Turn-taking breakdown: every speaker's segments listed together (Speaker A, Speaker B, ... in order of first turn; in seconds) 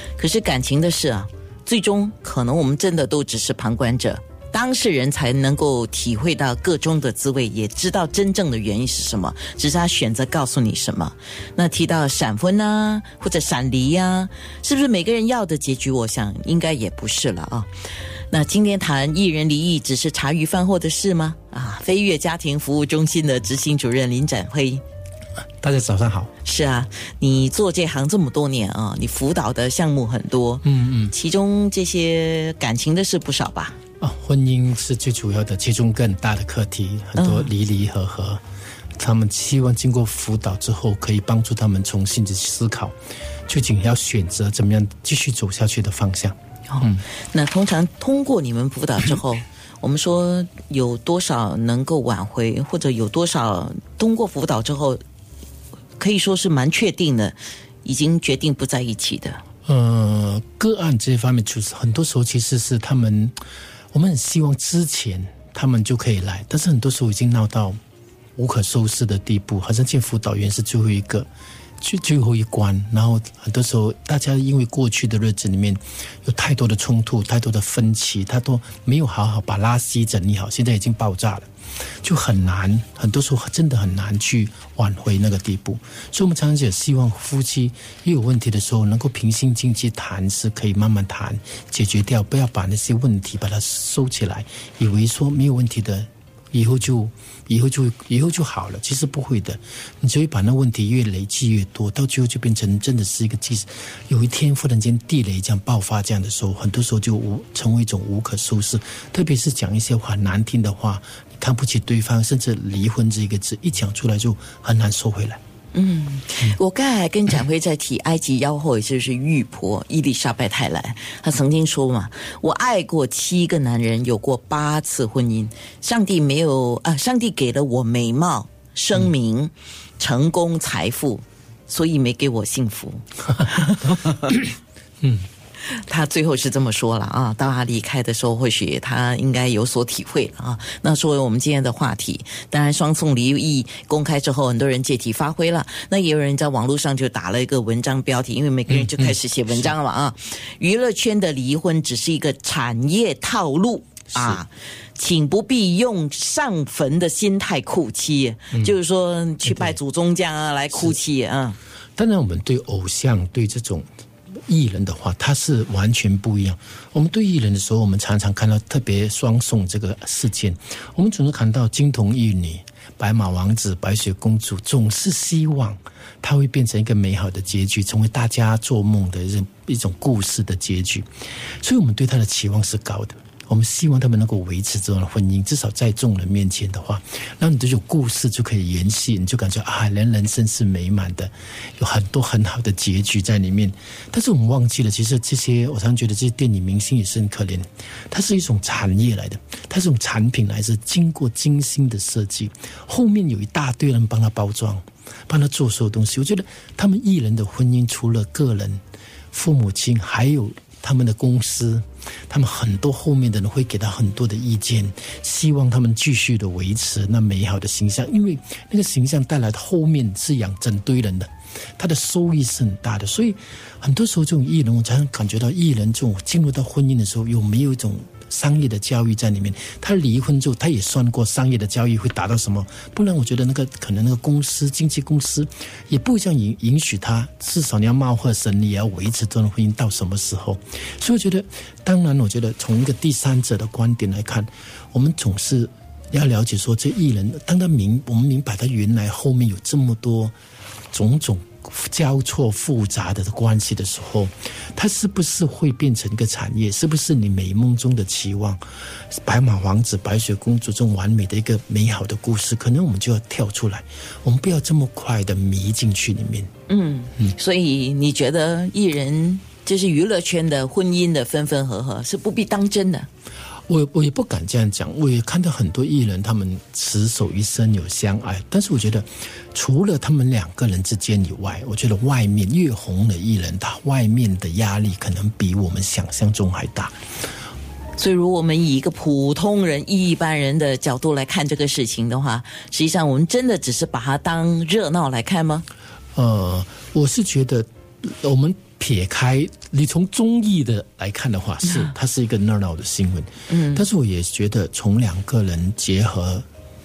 Speaker A: 0.2-17.7, 18.3-24.8, 26.4-33.8, 37.2-37.5, 46.7-55.0, 56.0-59.4, 115.7-134.4, 135.7-161.6, 266.7-273.1, 288.0-295.7, 301.6-301.9, 303.5-303.9
Speaker B: 25.6-26.3, 30.6-31.1, 34.0-38.4, 39.0-42.9, 43.5-47.0, 59.7-63.4, 63.9-67.8, 68.4-71.3, 71.8-81.5, 82.0-115.4, 148.7-149.7, 154.1-154.4, 159.4-159.8, 160.7-161.0, 162.0-163.9, 164.5-181.1, 181.6-250.3, 250.9-258.6, 259.1-266.5, 273.7-286.9, 296.1-306.4